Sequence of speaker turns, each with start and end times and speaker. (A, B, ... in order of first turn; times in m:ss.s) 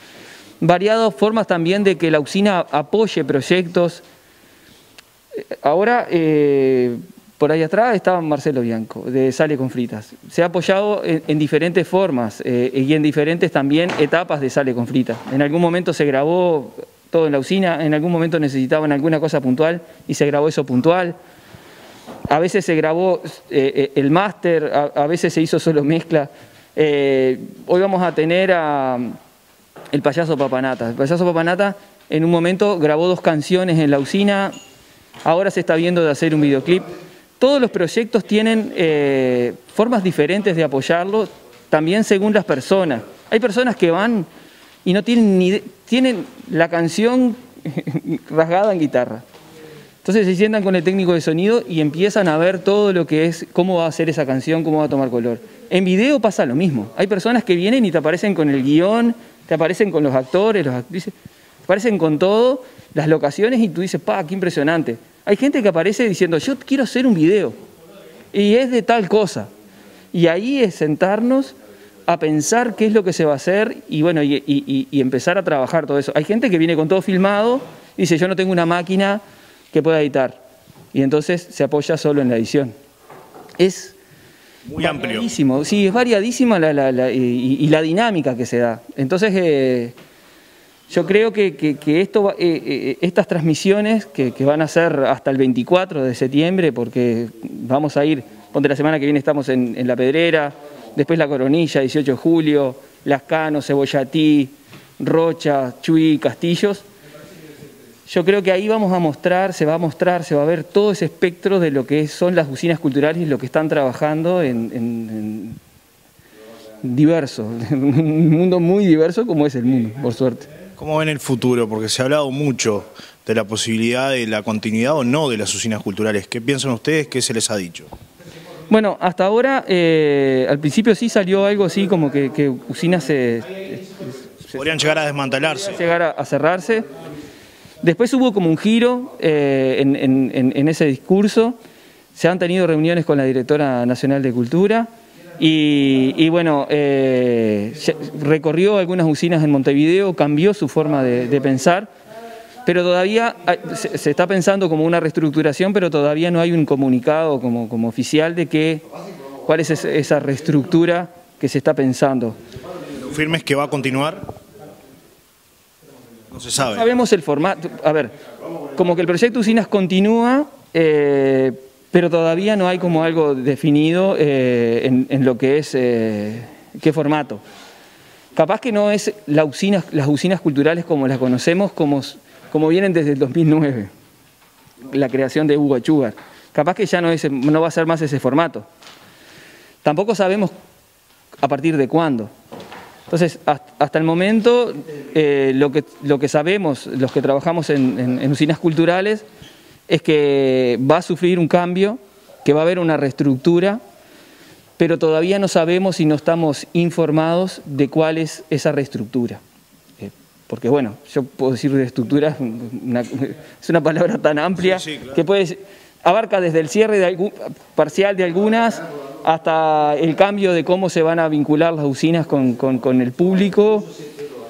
0:00.6-0:04.0 A
0:05.5-0:21.2 A
0:22.3-0:29.2 A
0:29.9-0:34.5 A
0:35.2-0:36.9 A
0:37.4-0:44.3 A
0:44.8-0:49.2 A
0:50.0-1:01.1 A
1:01.6-1:07.6 A
1:08.3-1:09.5 A
1:10.1-1:11.6 A
1:12.1-1:19.2 A
1:19.7-1:20.4 A
1:20.9-1:22.7 A
1:23.6-1:24.0 A
1:24.6-1:25.2 B
1:24.8-1:29.9 A
1:30.9-1:46.8 A
1:48.0-1:55.6 A
1:56.8-2:00.5 A
2:00.8-2:07.9 B
2:08.7-2:14.6 A
2:14.5-2:15.8 B
2:15.5-2:16.8 A
2:17.8-2:21.6 A
2:22.1-2:24.9 A
2:25.4-2:31.9 A
2:32.6-2:38.8 A
2:39.4-2:42.3 A
2:43.0-2:44.2 B
2:46.3-2:46.9 B
2:46.6-2:48.1 A
2:48.7-2:57.4 A
2:58.3-3:03.9 A
3:04.9-3:08.7 A
3:09.8-3:10.5 A
3:11.4-3:12.3 A
3:13.1-3:19.2 A
3:19.9-3:23.8 A
3:24.8-3:29.4 A
3:30.0-3:43.9 A
3:34.6-3:35.2 B